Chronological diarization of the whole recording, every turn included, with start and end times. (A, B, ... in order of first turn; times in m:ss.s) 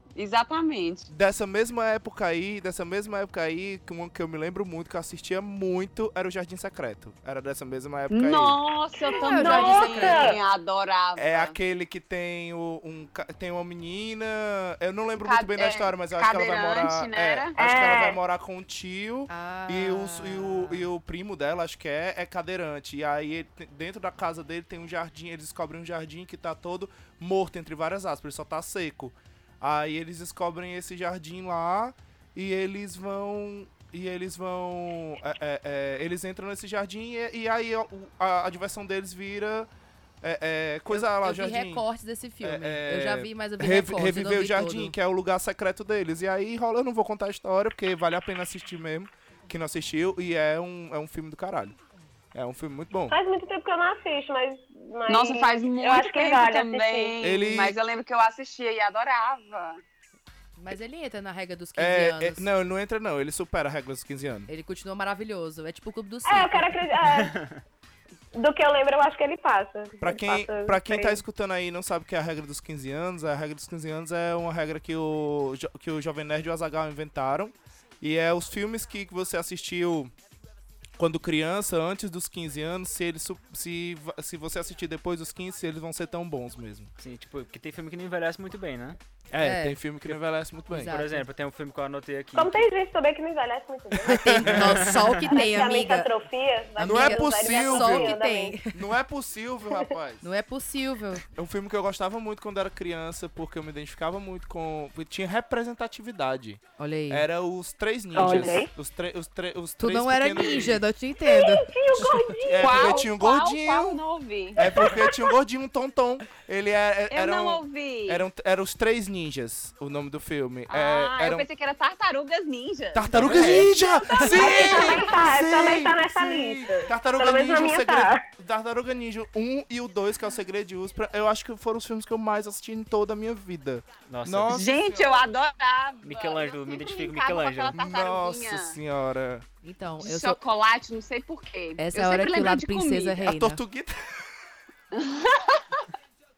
0:00.2-0:01.1 A
0:01.1-0:08.6 B
0:08.1-0:11.5 A
0:09.0-0:10.4 C
0:09.1-0:10.4 D
0:11.2-0:39.7 B
0:15.2-0:17.6 A
0:17.6-0:18.2 C
0:19.3-0:20.9 D
0:40.2-0:41.8 B
0:40.9-0:44.9 D
0:42.4-0:51.8 B
0:52.3-0:53.1 B
0:53.1-0:57.2 C
0:55.1-0:59.8 A
0:57.2-0:57.8 B
1:00.6-1:02.5 D
1:01.8-1:04.5 B
1:04.5-1:07.0 D
1:06.2-1:07.4 C
1:08.3-1:11.2 C
1:10.0-1:20.1 B
1:21.0-1:26.9 B
1:27.0-1:29.0 E
1:29.3-1:31.0 B
1:29.4-1:29.8 D
1:30.7-1:31.2 D
1:30.8-1:32.6 E
1:32.3-1:34.5 C
1:34.0-1:35.0 B
1:34.1-1:36.1 D
1:34.6-1:34.9 E
1:35.2-1:38.6 C
1:36.8-1:38.7 D
1:36.8-1:38.1 B
1:38.7-1:40.2 B
1:40.2-1:41.2 D
1:41.3-1:50.8 B
1:46.8-1:47.3 D
1:48.1-1:48.7 C
1:49.8-1:52.1 D
1:51.2-1:53.1 C
1:52.4-1:54.0 B
1:52.6-1:54.9 A
1:54.6-2:01.5 B
1:54.6-1:55.2 C
1:57.1-1:58.2 A
2:00.7-2:05.0 A
2:02.9-2:15.2 B
2:03.1-2:03.6 E
2:04.2-2:08.2 C
2:14.1-2:14.7 E
2:14.5-2:18.8 A
2:16.0-2:17.7 E
2:17.7-2:19.4 B
2:19.6-2:20.4 D
2:20.0-2:23.2 A
2:21.8-2:23.6 D
2:23.2-2:24.3 B
2:24.9-2:25.8 A